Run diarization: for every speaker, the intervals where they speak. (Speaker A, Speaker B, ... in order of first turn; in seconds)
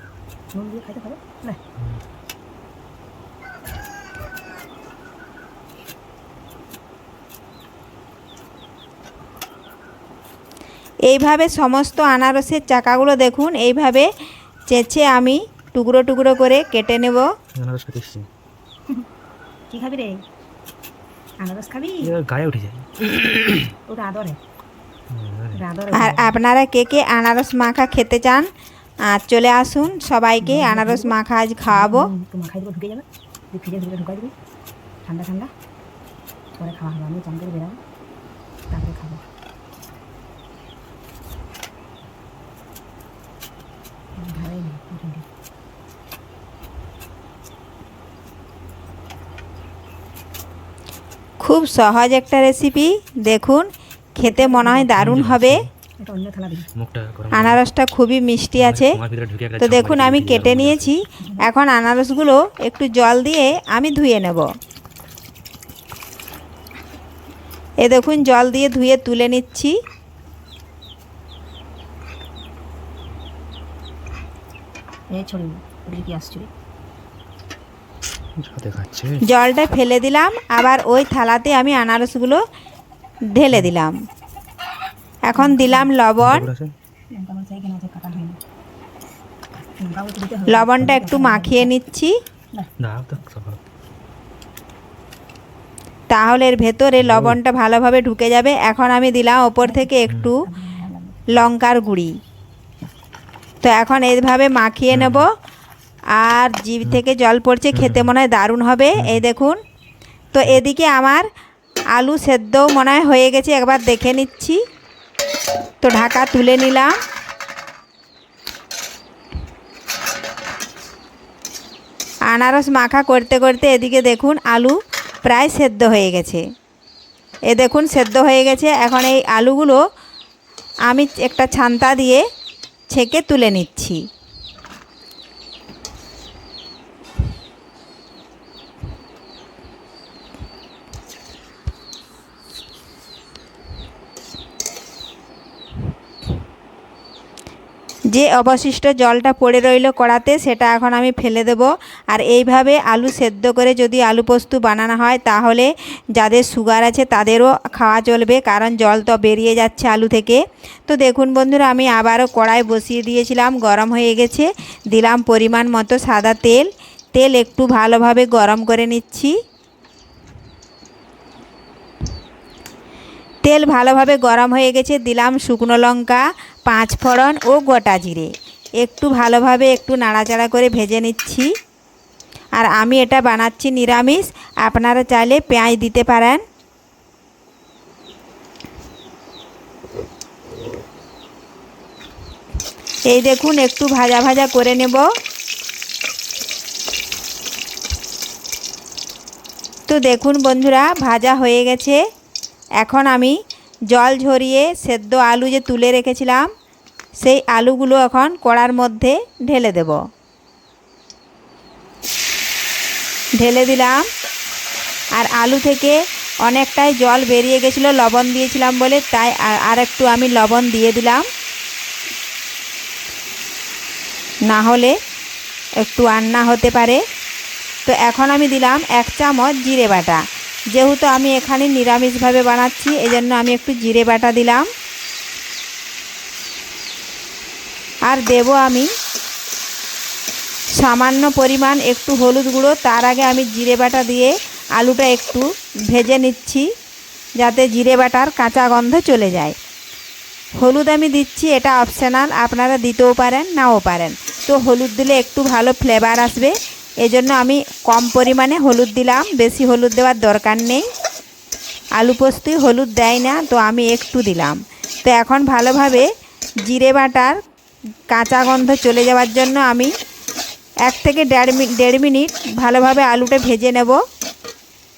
Speaker A: 0.5-1.6, 19.7-20.2, 21.4-22.1, 23.9-24.4, 25.6-26.4, 30.4-31.1, 31.7-34.3, 35.0-35.5, 36.6-37.8, 38.7-39.2, 44.2-45.2, 54.2-55.2, 56.0-56.7, 75.1-76.5, 85.3-85.9, 87.1-88.4, 89.8-91.7, 99.6-101.3
Speaker B: 11.1-14.1, 14.7-17.2, 25.9-28.5, 29.1-32.1, 51.4-55.6, 57.3-59.0, 59.6-64.5, 67.8-69.8, 79.2-82.4, 83.3-83.9, 85.3-86.5, 90.5-92.1, 96.1-100.5, 101.3-102.1, 103.6-105.3, 106.2-109.6, 110.3-111.3, 111.9-114.6, 115.8-116.9, 122.3-126.4, 127.5-129.8, 130.9-132.2, 132.9-134.0, 148.1-169.3, 173.4-181.5, 182.6-186.4, 193.1-195.1, 199.9-202.0, 202.8-203.3, 203.9-206.5, 207.2-210.0, 213.4-214.1, 215.2-221.2, 224.5-224.9, 225.8-227.0, 227.9-230.2, 230.7-234.7, 238.1-238.9, 240.8-246.7, 247.4-249.6, 250.6-260.9, 262.0-266.1, 266.7-267.4, 268.1-269.9, 270.9-274.0
Speaker C: 17.6-18.3, 22.0-23.7, 25.1-25.6, 55.0-55.7, 56.8-57.6, 58.6-60.9, 78.4-79.2, 86.2-86.7, 92.8-93.6, 97.0-97.4, 104.9-105.3, 107.7-108.1, 109.0-109.2